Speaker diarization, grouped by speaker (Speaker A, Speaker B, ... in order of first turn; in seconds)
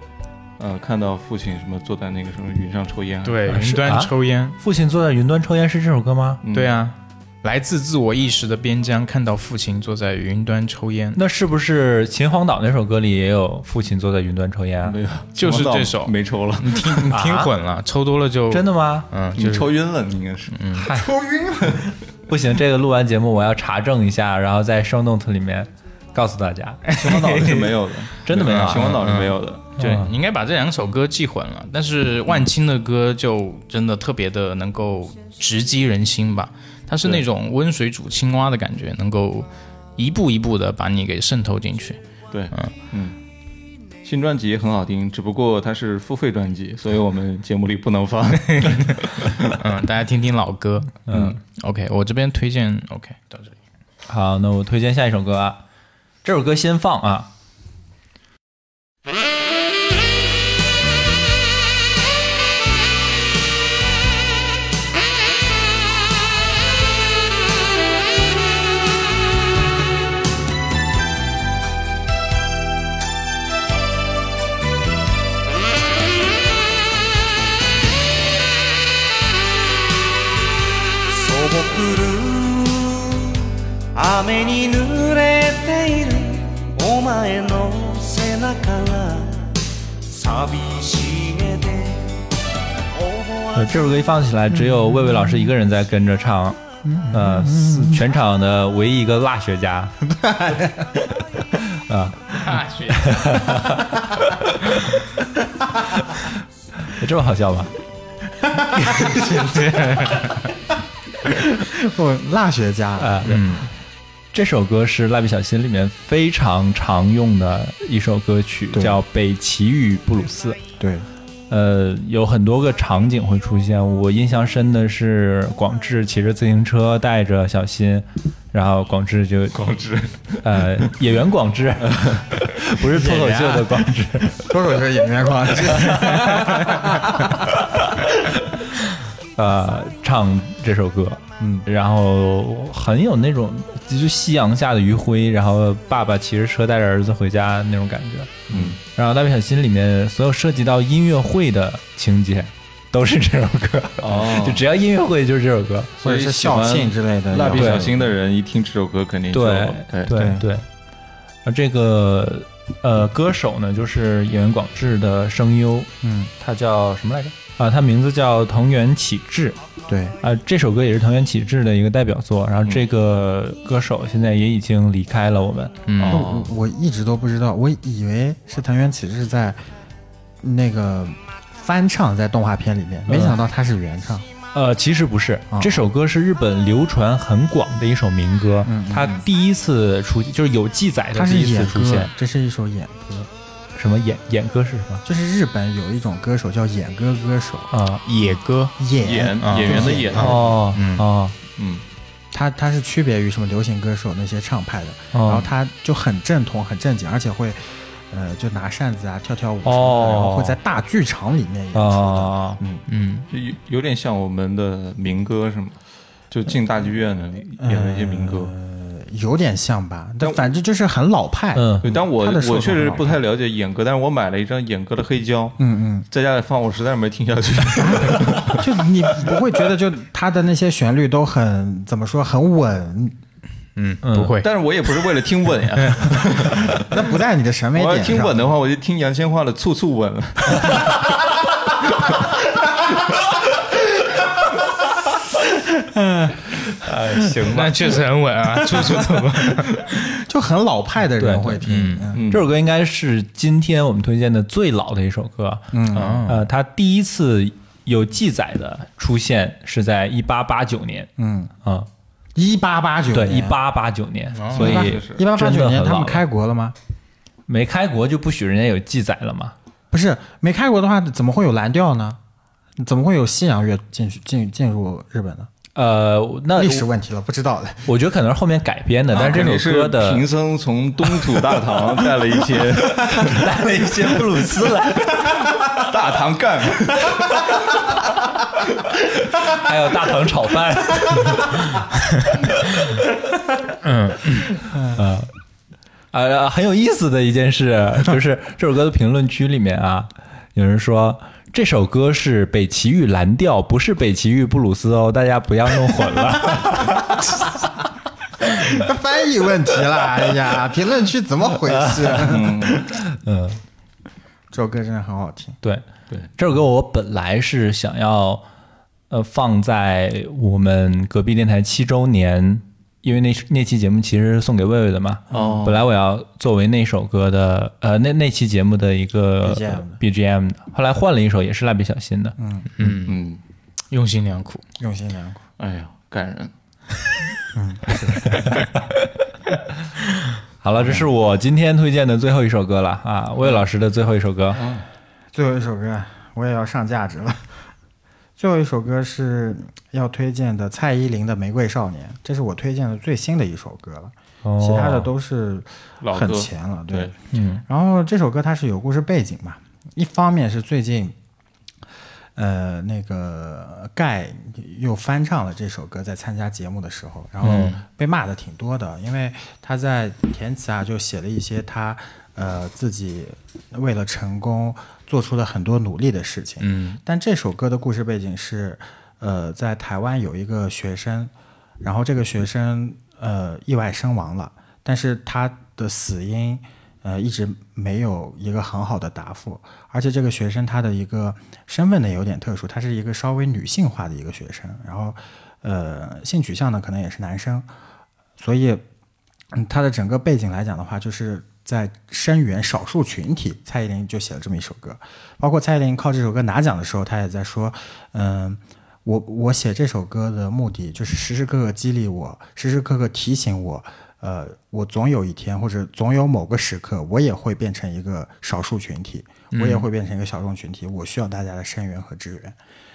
Speaker A: 0.6-3.4, 6.4-6.7, 14.8-17.1, 19.4-20.6, 27.0-29.7, 42.3-43.2, 44.0-49.5, 51.1-51.4, 129.5-130.9, 131.9-132.2, 148.5-148.8, 154.0-154.6, 156.0-160.1, 175.9-176.5, 199.0-200.4, 201.6-201.8, 213.3-215.8, 216.3-218.5, 221.8-228.6, 234.4-236.8, 237.7-242.4, 247.1-247.4, 252.1-252.4, 264.5-265.2, 279.1-283.4, 285.6-287.8, 312.2-312.8, 325.3-325.8, 333.1-333.4, 335.6-336.5, 356.0-357.1
Speaker B: 3.2-4.6, 6.5-11.2, 15.4-19.7, 20.5-20.9, 26.9-27.8, 28.5-42.0, 48.5-48.8, 49.6-53.6, 102.4-103.5, 108.7-110.5, 113.3-113.7, 175.9-176.2, 198.1-198.8, 199.4-201.1, 212.9-213.3, 233.8-234.5, 247.5-249.9, 251.7-252.1, 255.9-256.4, 264.3-264.7, 293.8-294.5, 332.8-333.2, 333.9-334.6, 376.6-377.0, 419.5-419.9
Speaker C: 3.5-6.4, 11.1-14.9, 17.1-17.5, 18.5-19.1, 20.8-21.1, 22.3-26.8, 28.2-29.0, 29.8-30.1, 51.1-51.4, 54.1-55.6, 56.2-57.3, 93.5-99.9, 101.7-102.5, 103.0-103.9, 106.9-107.7, 113.0-113.6, 114.3-120.6, 121.5-129.6, 130.4-134.4, 139.4-155.9, 157.5-157.8, 159.3-160.7, 161.4-169.6, 170.2-175.9, 183.1-183.4, 184.5-192.1, 193.8-195.0, 197.7-198.0, 200.1-201.3, 205.1-205.5, 209.6-210.6, 211.7-212.6, 221.5-221.8, 234.0-234.3, 251.2-251.6, 252.3-255.7, 256.2-261.1, 261.6-261.9, 263.1-266.2, 267.5-269.5, 275.7-276.9, 277.9-280.2, 283.0-285.4, 289.5-291.9, 292.4-293.0, 294.9-295.3, 296.1-307.0, 311.7-312.2, 313.1-313.6, 315.6-318.4, 319.1-332.9, 340.6-344.6, 354.4-355.1, 357.3-357.6, 367.4-367.8
Speaker D: 20.9-21.9, 94.5-95.4, 96.8-98.0, 100.0-100.9, 111.3-113.2, 118.7-119.0, 120.8-121.1, 132.9-137.4, 141.4-141.7, 156.0-157.9, 160.1-160.4, 166.0-166.3, 169.9-170.2, 176.1-179.6, 180.4-184.3, 185.5-185.8, 188.6-189.2, 191.1-193.3, 195.0-197.7, 198.8-200.3, 202.3-212.8, 217.6-223.2, 225.6-226.1, 227.7-233.2, 236.8-238.5, 245.7-246.5, 250.1-252.2, 255.7-256.3, 261.2-261.5, 262.3-263.6, 264.5-266.8, 269.9-272.2, 272.8-275.5, 276.5-277.9, 308.6-312.7, 314.5-315.6, 325.3-325.6, 329.4-330.0, 332.4-332.7, 334.8-335.4, 337.5-338.4, 340.8-341.1, 345.3-347.6, 348.4-357.1, 357.6-361.1, 362.4-397.7, 398.4-398.8, 399.5-422.6
Speaker E: 81.1-83.4, 83.9-89.5, 90.1-92.2, 92.9-93.8